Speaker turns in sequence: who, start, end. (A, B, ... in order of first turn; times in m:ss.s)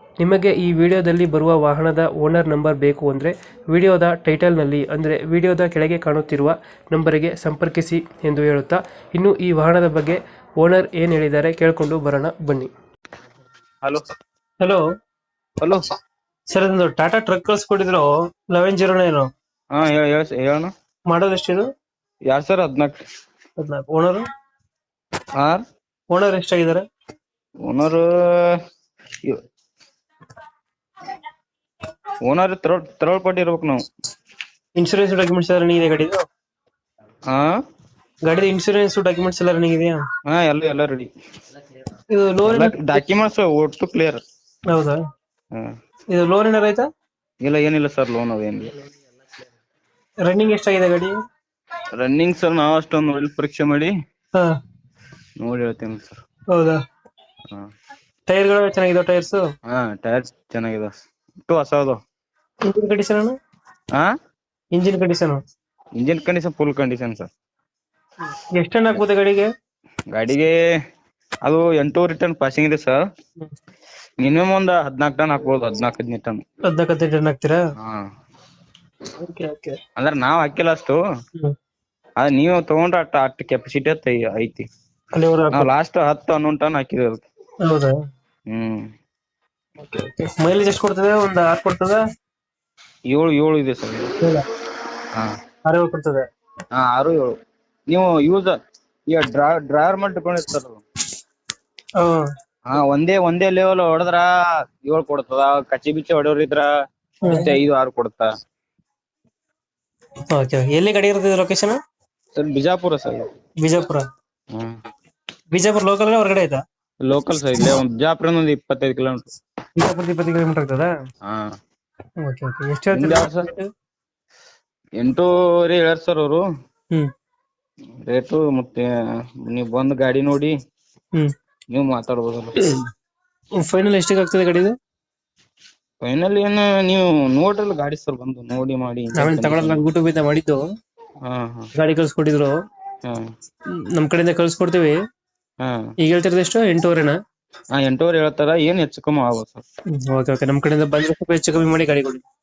0:00.2-0:12.7 A
0:16.5-0:19.3 A
0:19.7-0:20.7 B
0:21.1-0:21.7 A
0:22.3-0:23.0 B
0:23.6-0:24.2 A
0:26.1-0:26.8 A
0:27.6-0:28.6 B
0:32.2-0:33.8 B
0:34.8-0:36.2 A
0:37.3-0:37.6 B
0:38.3-0:40.0 A
0:40.3-0:41.1 B
0:42.1-0:42.7 A
0:42.4-0:44.2 B
0:44.7-0:45.0 A
0:46.1-0:46.9 A
0:47.4-0:48.7 B
0:50.2-0:51.1 A
0:52.0-0:53.9 B
0:55.4-0:56.1 B
0:56.5-0:56.8 A
0:58.3-0:59.4 A
0:59.6-1:00.9 B
1:01.5-1:02.0 B
1:02.7-1:03.3 A
1:04.7-1:05.4 A
1:06.0-1:07.3 B
1:08.6-1:09.5 A
1:10.1-1:10.6 B
1:11.4-1:13.0 B
1:14.2-1:16.4 B
1:16.7-1:17.6 A
1:17.8-1:18.1 B
1:19.2-1:19.8 A
1:20.0-1:21.0 B
1:22.2-1:24.7 B
1:25.2-1:25.7 A
1:25.5-1:27.2 B
1:27.6-1:27.9 A
1:28.5-1:28.9 B
1:29.9-1:32.0 A
1:33.1-1:34.1 B
1:35.7-1:36.2 A
1:36.7-1:37.3 B
1:37.9-1:38.6 B
1:39.1-1:40.8 B
1:42.7-1:44.3 B
1:44.8-1:46.7 B
1:47.2-1:48.3 B
1:50.3-1:51.8 A
1:52.3-1:53.3 B
1:53.6-1:54.0 A
1:55.5-1:56.6 A
1:57.0-1:59.2 B
1:59.8-2:00.9 A
2:01.2-2:01.5 B
2:02.2-2:03.6 A
2:02.9-2:03.5 B
2:05.0-2:06.4 B
2:08.1-2:10.5 B
2:11.7-2:12.5 B
2:13.6-2:14.8 A
2:16.0-2:19.9 B
2:19.2-2:20.6 A
2:21.2-2:21.7 B
2:21.8-2:22.5 A
2:23.0-2:23.3 B
2:24.0-2:25.0 A
2:25.6-2:25.9 B
2:26.0-2:27.2 A
2:27.7-2:29.6 B
2:30.0-2:32.2 A